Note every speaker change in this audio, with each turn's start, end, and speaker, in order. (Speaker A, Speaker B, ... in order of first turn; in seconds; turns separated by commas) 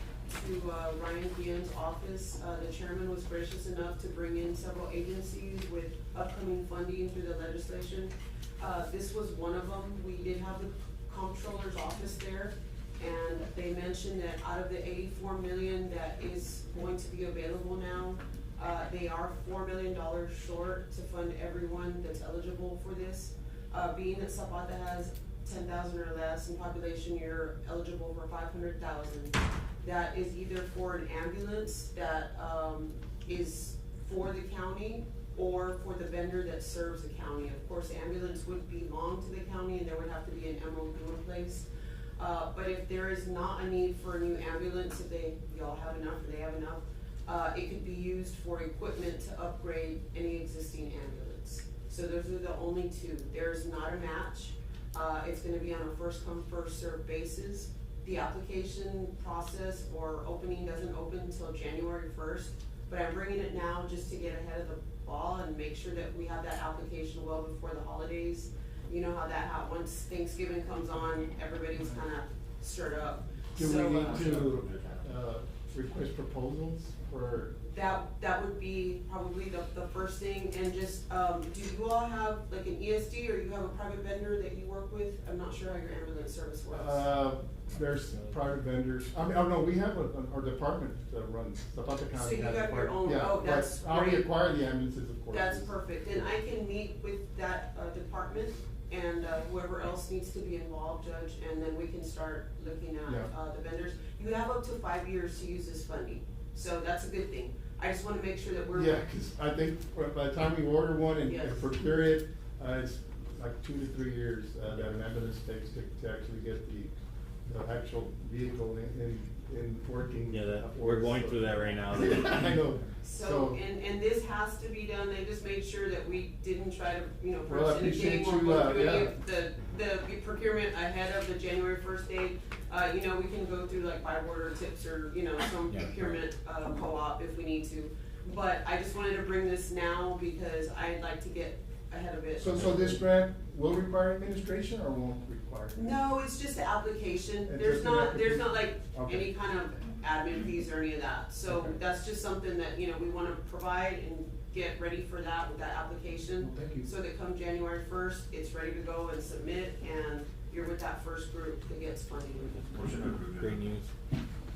Speaker A: 0.3-41.7, Speaker A: 42.2-74.5, Speaker B: 73.6-77.5, Speaker C: 73.9-75.1, Speaker A: 77.6-87.0, Speaker B: 86.7-95.7, Speaker A: 92.2-94.3, Speaker A: 95.3-109.0, Speaker B: 108.7-116.9, Speaker A: 111.2-111.7, Speaker B: 117.5-123.6, Speaker D: 120.3-122.6, Speaker A: 123.0-142.8, Speaker B: 127.5-129.1, Speaker B: 142.4-145.9, Speaker A: 145.8-163.0, Speaker B: 147.4-149.3, Speaker B: 151.5-151.7, Speaker C: 162.7-163.6, Speaker D: 163.3-163.9